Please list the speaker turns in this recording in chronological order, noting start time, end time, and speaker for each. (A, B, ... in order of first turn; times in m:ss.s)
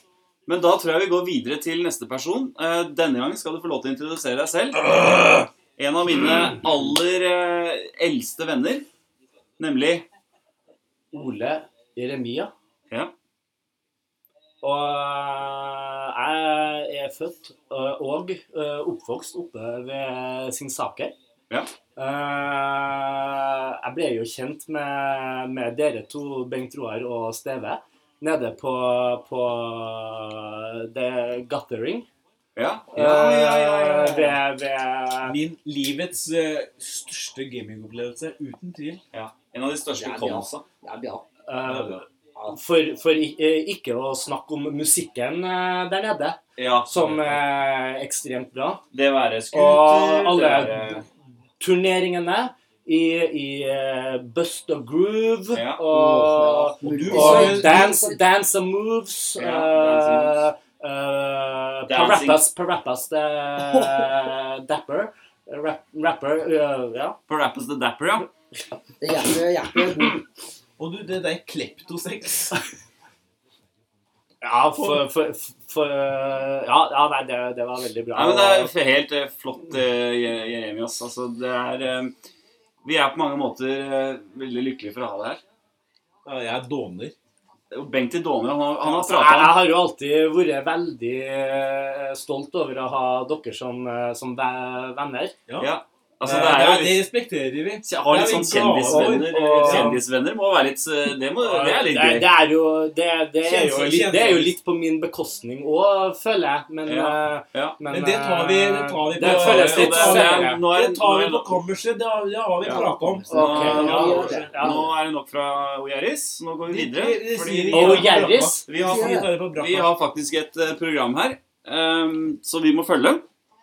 0:00.4-0:05.0 A
0:05.8-0:08.8 A
0:09.6-0:10.0 A
0:11.1-0:12.5 B
0:14.6-0:21.1 B
0:22.0-0:32.1 B
0:32.6-0:34.4 A
0:32.9-0:35.4 B
0:35.2-0:39.0 C
0:39.1-0:40.6 A
0:40.0-0:41.2 D
0:41.5-0:48.8 B
0:41.6-0:42.0 C
0:46.6-0:47.4 A
0:48.9-0:51.0 A
0:49.5-0:51.0 B
0:51.6-1:07.2 B
0:55.5-0:55.8 A
0:55.9-0:58.2 D
0:56.8-0:57.9 C
0:59.4-1:00.4 A
1:01.9-1:02.4 A
1:03.7-1:04.0 C
1:07.3-1:08.3 A
1:09.0-1:10.2 D
1:10.8-1:12.6 C
1:14.4-1:18.7 B
1:14.7-1:15.0 C
1:18.1-1:22.1 A
1:22.8-1:25.4 A
1:26.2-1:27.1 C
1:27.7-1:29.6 A
1:28.8-1:35.3 B
1:35.6-1:37.0 A
1:36.2-1:40.0 C
1:37.8-1:42.3 A
1:38.9-1:39.9 B
1:41.4-1:50.6 B
1:43.4-1:44.6 C
1:46.8-1:47.8 A
1:47.9-1:54.5 C
1:49.2-1:51.6 A
1:52.6-2:03.2 A
1:52.6-1:54.9 D
1:53.3-1:54.9 B
1:56.7-1:59.9 C
1:57.7-1:58.6 B
1:58.8-1:59.2 D